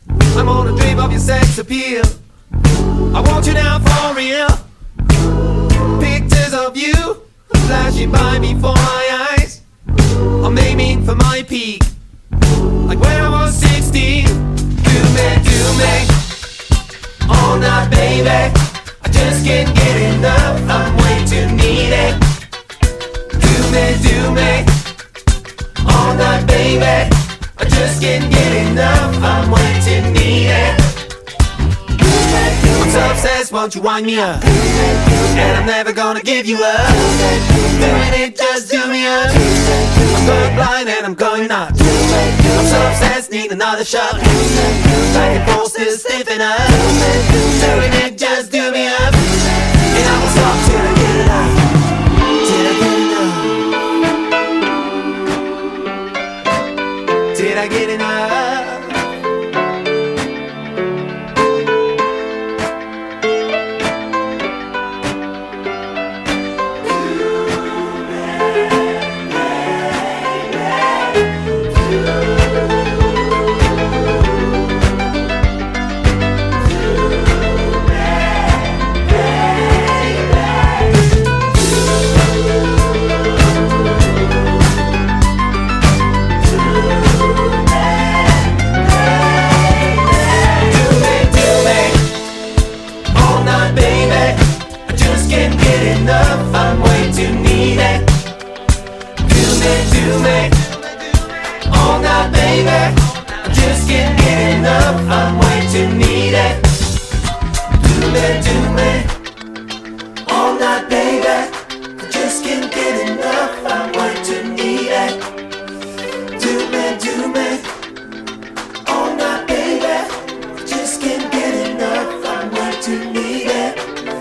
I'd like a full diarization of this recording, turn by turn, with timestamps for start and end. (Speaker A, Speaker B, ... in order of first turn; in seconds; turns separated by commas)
Speaker A: 0.3-2.2, Speaker A: 3.1-4.6, Speaker A: 5.9-9.6, Speaker A: 10.4-11.9, Speaker A: 12.8-16.1, Speaker A: 17.3-22.2, Speaker A: 23.4-24.7, Speaker A: 25.8-30.8, Speaker A: 32.2-49.3, Speaker A: 49.9-51.6, Speaker A: 52.4-53.6, Speaker A: 57.3-59.0, Speaker A: 90.5-92.0, Speaker A: 93.1-98.1, Speaker A: 99.2-100.9, Speaker A: 101.7-106.7, Speaker A: 107.8-109.1, Speaker A: 110.2-115.2, Speaker A: 116.3-117.6, Speaker A: 118.8-123.8